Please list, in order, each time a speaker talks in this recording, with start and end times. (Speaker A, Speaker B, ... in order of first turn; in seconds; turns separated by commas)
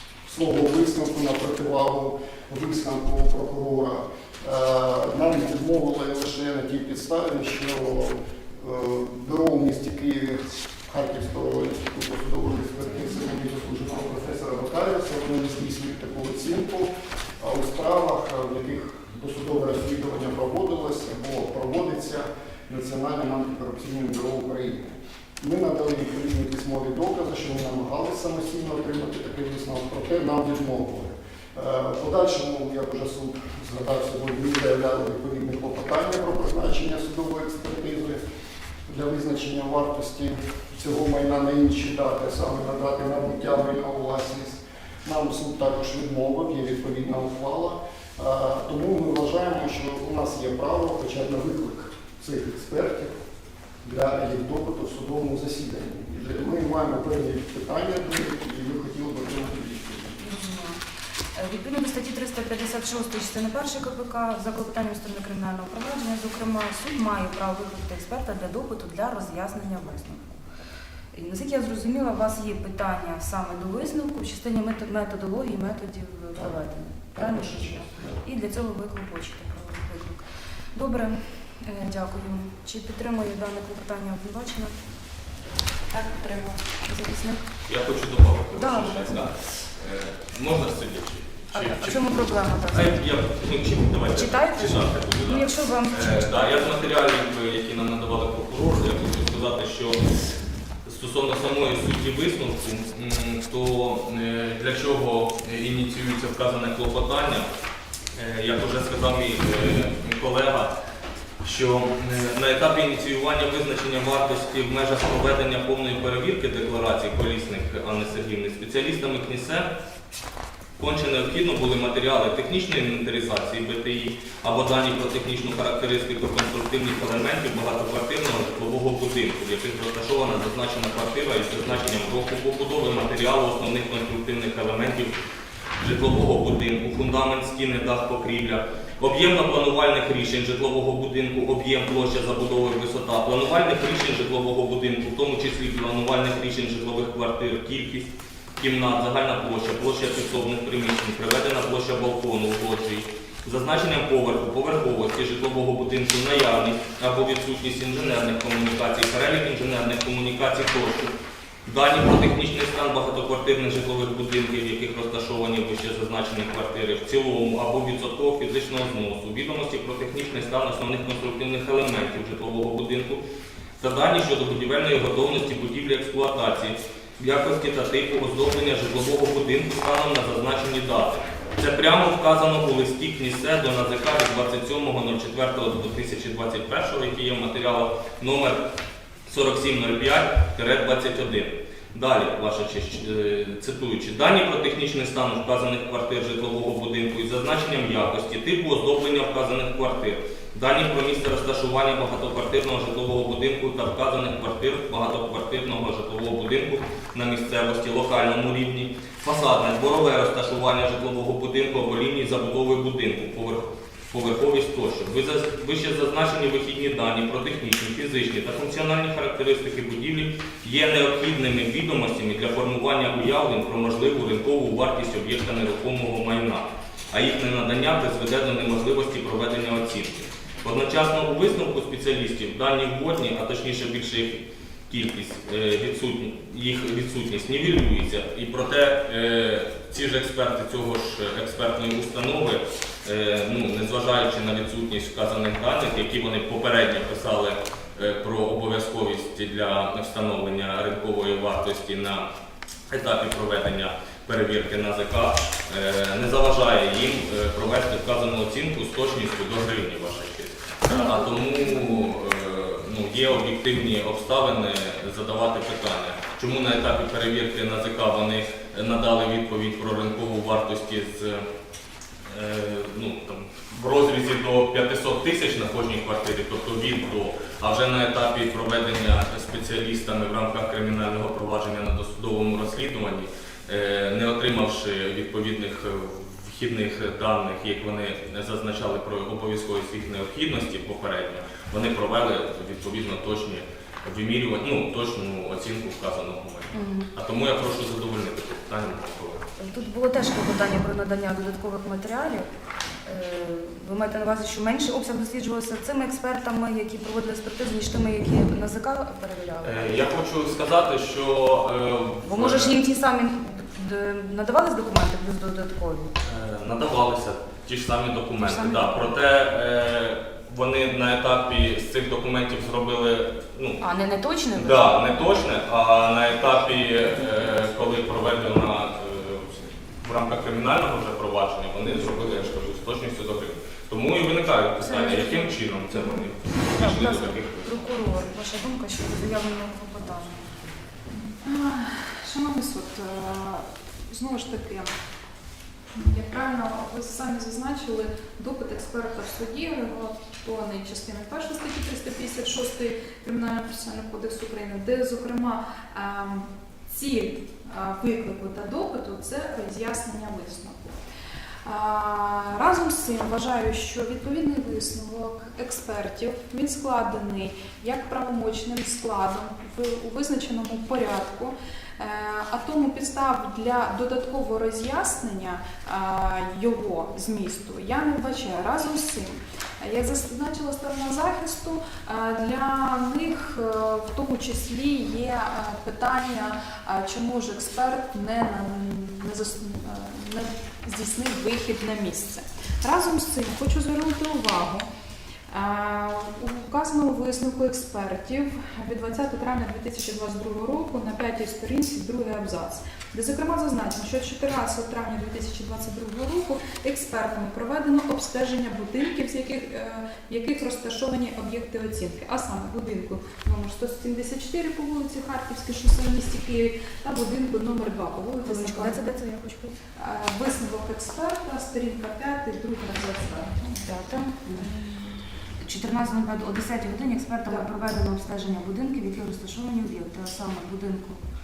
Speaker A: 0.2-38.2, Speaker A: 38.9-53.1, Speaker A: 53.8-60.2, Speaker B: 60.2-60.8, Speaker B: 61.3-70.4, Speaker B: 71.1-80.2, Speaker A: 77.1-78.2, Speaker B: 80.8-84.8, Speaker C: 85.9-86.6, Speaker B: 86.0-87.4, Speaker D: 87.7-100.0, Speaker B: 88.5-89.2, Speaker B: 91.5-93.0, Speaker B: 94.1-96.6, Speaker D: 100.8-107.5, Speaker D: 108.1-110.7, Speaker D: 111.4-119.7, Speaker D: 120.8-135.1, Speaker D: 135.8-161.1, Speaker D: 161.7-173.2, Speaker D: 173.8-188.6, Speaker D: 189.2-252.3, Speaker D: 252.9-271.5, Speaker B: 260.9-262.0, Speaker D: 272.2-299.4, Speaker B: 296.7-297.1, Speaker B: 299.6-302.5, Speaker B: 303.1-310.2, Speaker D: 309.6-312.8, Speaker B: 312.2-316.1, Speaker D: 316.2-323.8, Speaker B: 318.4-319.1, Speaker B: 323.8-325.2, Speaker D: 324.6-337.7, Speaker B: 334.8-340.5, Speaker C: 341.3-344.9, Speaker C: 345.9-361.0, Speaker C: 361.6-394.9, Speaker C: 395.5-419.0, Speaker B: 418.4-419.8, Speaker C: 419.9-423.8, Speaker B: 423.9-424.7, Speaker C: 424.7-425.0, Speaker B: 425.6-431.2